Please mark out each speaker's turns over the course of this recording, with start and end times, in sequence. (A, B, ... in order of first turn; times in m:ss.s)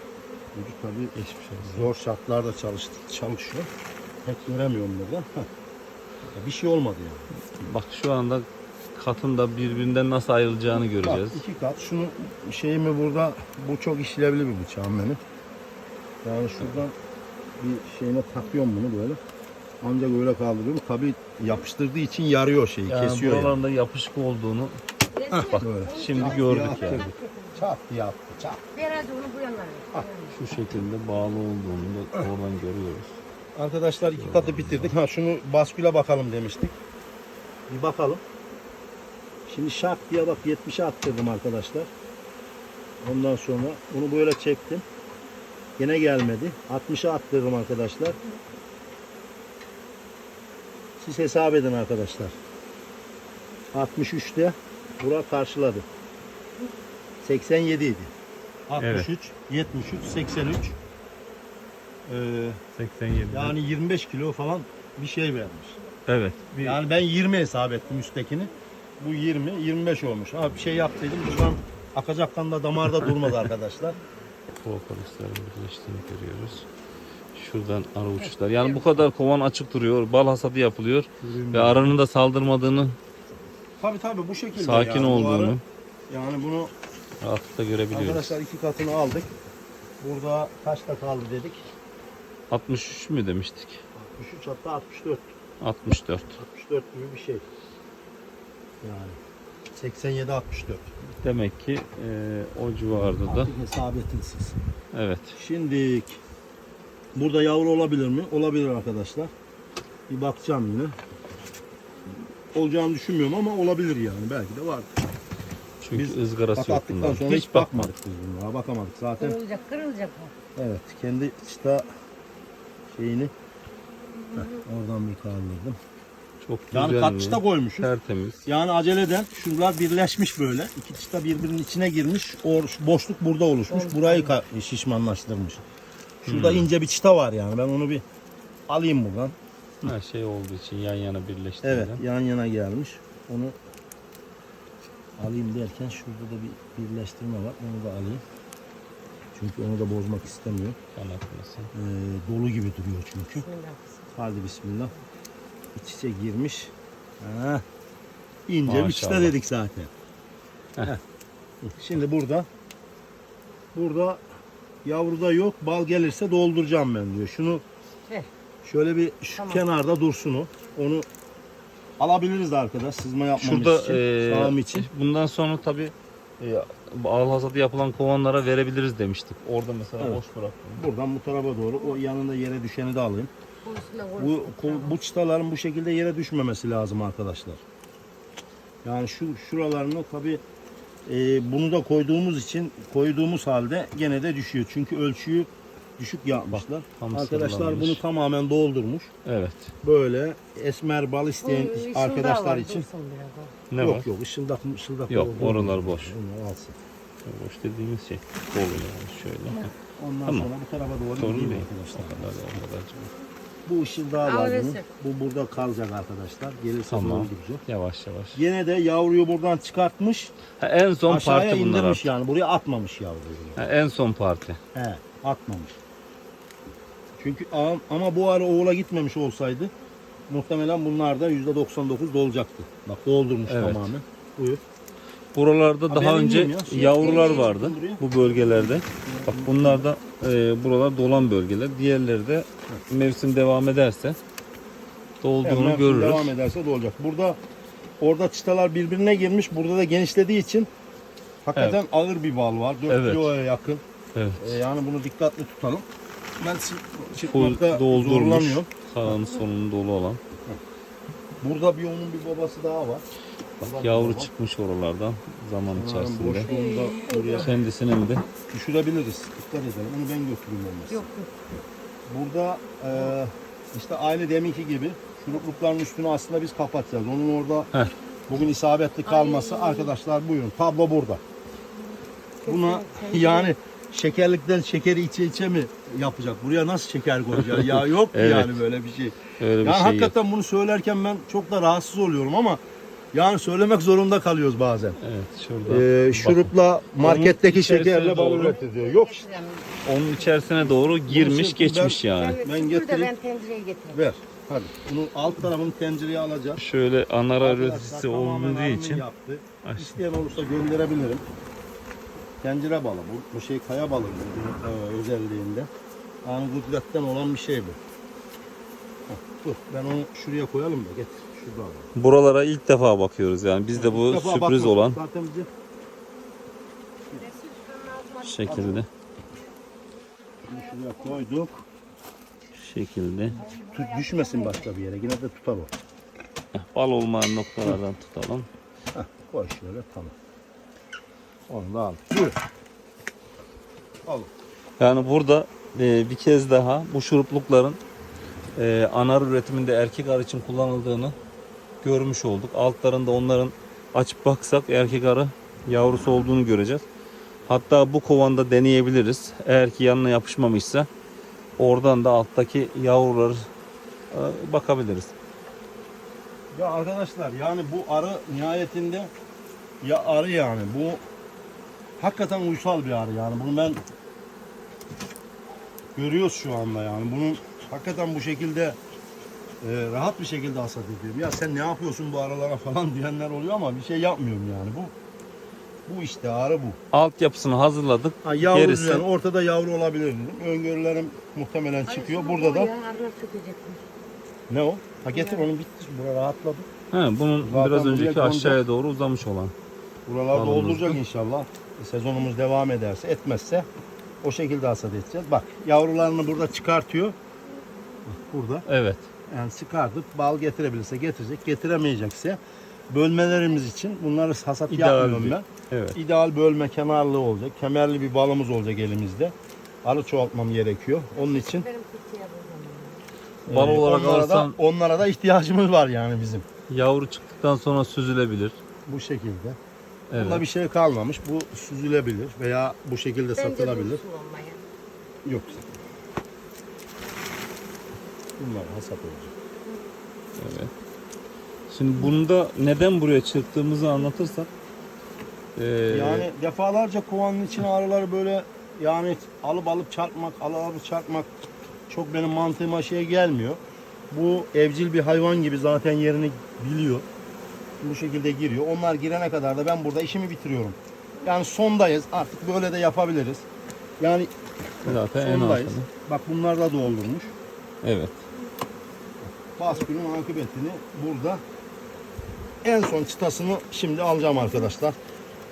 0:00.5-0:03.7 A
0:01.1-0:01.9 B
0:04.2-0:05.5 A
0:06.3-0:07.3 A
0:07.6-0:11.4 B
0:11.0-0:15.2 A
0:16.2-0:16.9 A
0:17.6-0:19.2 A
0:19.8-0:23.6 A
0:22.9-0:24.8 B
0:25.1-0:27.6 C
0:25.3-0:27.1 B
0:25.3-0:28.6 A
0:28.7-0:30.4 C
0:30.3-0:33.2 B
0:33.6-0:36.8 A
0:34.1-0:34.9 B
0:37.7-0:38.2 A
0:39.5-0:41.9 A
0:43.0-0:44.8 A
0:45.8-0:48.2 A
0:51.0-0:52.4 A
0:53.7-0:55.8 A
0:57.2-0:58.1 A
0:58.7-1:00.8 A
0:58.8-0:59.1 B
1:02.0-1:02.6 A
1:02.8-1:03.6 B
1:03.3-1:05.8 A
1:06.1-1:06.8 B
1:06.6-1:14.0 A
1:13.0-1:13.3 B
1:14.6-1:16.7 B
1:17.3-1:23.0 B
1:21.2-1:22.0 A
1:23.8-1:25.6 A
1:24.5-1:25.6 B
1:26.1-1:26.7 A
1:27.2-1:28.4 B
1:27.9-1:29.3 A
1:30.0-1:31.6 A
1:32.5-1:33.8 B
1:33.9-1:35.3 A
1:35.6-1:36.4 B
1:36.4-1:37.4 A
1:38.8-1:39.2 A
1:39.7-1:40.9 A
1:41.2-1:43.5 B
1:43.2-1:44.6 A
1:44.9-1:45.4 B
1:45.4-1:46.2 A
1:47.2-1:49.3 A
1:50.1-1:50.9 A
1:52.5-1:54.9 A
1:55.8-1:57.9 B
1:55.9-1:59.4 A
1:59.2-2:00.3 C
2:00.6-2:01.8 A
2:02.9-2:03.3 A
2:04.3-2:05.8 A
2:06.4-2:08.4 B
2:06.7-2:07.9 A
2:08.4-2:15.6 A
2:13.7-2:14.3 C
2:16.2-2:18.0 A
2:16.2-2:16.7 B
2:18.7-2:19.4 A
2:19.8-2:22.0 B
2:21.6-2:23.6 A
2:25.2-2:28.2 A
2:29.3-2:30.8 A
2:30.9-2:31.7 B
2:31.7-2:33.4 A
2:33.3-2:34.0 C
2:34.1-2:34.9 A
2:35.8-2:37.6 A
2:38.5-2:39.9 A
2:38.7-2:39.3 B
2:41.6-2:42.5 A
2:43.7-2:44.2 A
2:44.8-2:47.6 A
2:48.6-2:51.0 A
2:49.4-2:49.6 C
2:52.0-2:54.9 A
2:53.4-3:00.8 B
3:00.8-3:03.3 A
3:03.6-3:05.0 C
3:04.2-3:07.6 A
3:08.8-3:10.4 A
3:11.0-3:19.1 A
3:16.5-3:18.0 B
3:19.2-3:19.7 B
3:19.8-3:22.9 A
3:21.4-3:23.5 C
3:23.7-3:24.1 B
3:23.8-3:26.8 A
3:25.1-3:26.1 B
3:27.2-3:29.7 B
3:30.0-3:32.3 A
3:31.2-3:33.1 B
3:33.6-3:37.6 A
3:34.2-3:34.8 C
3:36.9-3:38.4 B
3:38.3-3:40.3 A
3:40.6-3:42.1 B
3:41.1-3:43.6 A
3:43.6-3:44.6 B
3:44.7-3:45.7 A
3:47.2-3:49.7 A
3:50.3-3:54.6 A
3:53.5-3:53.9 B
3:55.3-4:04.2 B
3:55.9-3:59.8 A
4:05.2-4:06.3 B
4:05.4-4:07.4 A
4:08.0-4:10.7 A
4:11.4-4:13.8 A
4:12.9-4:13.3 B
4:14.1-4:14.6 B
4:14.4-4:15.8 A
4:16.4-4:19.1 A
4:17.2-4:20.2 B
4:21.4-4:23.0 A
4:23.6-4:24.3 A
4:23.6-4:26.5 B
4:25.7-4:27.5 A
4:26.5-4:27.4 C
4:27.4-4:28.2 B
4:28.5-4:31.1 A
4:30.9-4:31.3 C
4:32.1-4:37.7 A
4:38.3-4:41.2 A
4:39.0-4:39.9 C
4:42.4-4:43.5 C
4:42.4-4:52.6 A
4:47.5-4:48.6 B
4:49.4-4:50.1 B
4:53.1-4:55.0 A
4:55.0-4:58.6 B
4:55.6-4:59.3 A
4:58.4-5:00.5 C
4:59.8-5:02.4 B
5:01.0-5:03.1 A
5:02.1-5:04.0 C
5:03.9-5:06.6 A
5:06.6-5:09.0 B
5:07.4-5:11.2 A
5:09.6-5:10.0 B
5:12.4-5:15.7 A
5:16.2-5:17.8 A
5:19.1-5:21.9 A
5:21.9-5:25.0 B
5:23.7-5:25.5 A
5:27.1-5:28.7 C
5:28.2-5:28.9 B
5:28.4-5:28.8 A
5:30.4-5:31.6 A
5:32.5-5:33.4 B
5:33.4-5:34.6 C
5:33.4-5:35.7 A
5:36.5-5:38.5 B
5:38.9-5:40.1 A
5:41.5-5:42.4 A
5:44.8-5:47.8 B
5:48.5-5:51.2 B
5:51.8-5:56.8 B
5:57.5-6:00.9 B
6:01.6-6:03.5 B
6:04.1-6:05.1 B
6:06.5-6:09.1 A
6:09.8-6:11.0 A
6:12.0-6:13.8 A
6:16.0-6:18.8 A
6:19.6-6:24.9 A
6:25.9-6:26.8 A
6:26.9-6:29.0 B
6:28.2-6:32.7 A
6:31.9-6:33.8 C
6:34.5-6:36.7 A
6:35.1-6:35.5 C
6:36.9-6:39.5 B
6:37.4-6:38.6 A
6:40.0-6:43.6 A
6:40.3-6:41.0 B
6:44.2-6:47.1 A
6:48.0-6:48.6 A
6:48.6-6:49.1 B
6:49.3-6:52.4 A
6:52.9-7:01.7 A
6:54.7-6:56.0 B
7:01.2-7:03.0 C
7:03.5-7:06.4 A
7:03.5-7:04.6 B
7:06.7-7:08.6 B
7:08.8-7:09.6 A
7:10.1-7:10.4 B
7:10.2-7:14.0 A
7:13.4-7:14.6 C
7:15.2-7:15.6 A
7:18.4-7:19.3 A
7:20.4-7:20.7 B
7:21.7-7:24.5 B
7:25.6-7:26.3 B
7:25.9-7:31.3 A
7:31.9-7:33.6 A
7:34.1-7:37.0 A
7:37.8-7:43.4 A
7:44.0-7:47.3 A
7:44.8-7:45.9 B
7:47.8-7:48.2 B
7:49.2-7:51.4 A
7:52.6-7:55.0 A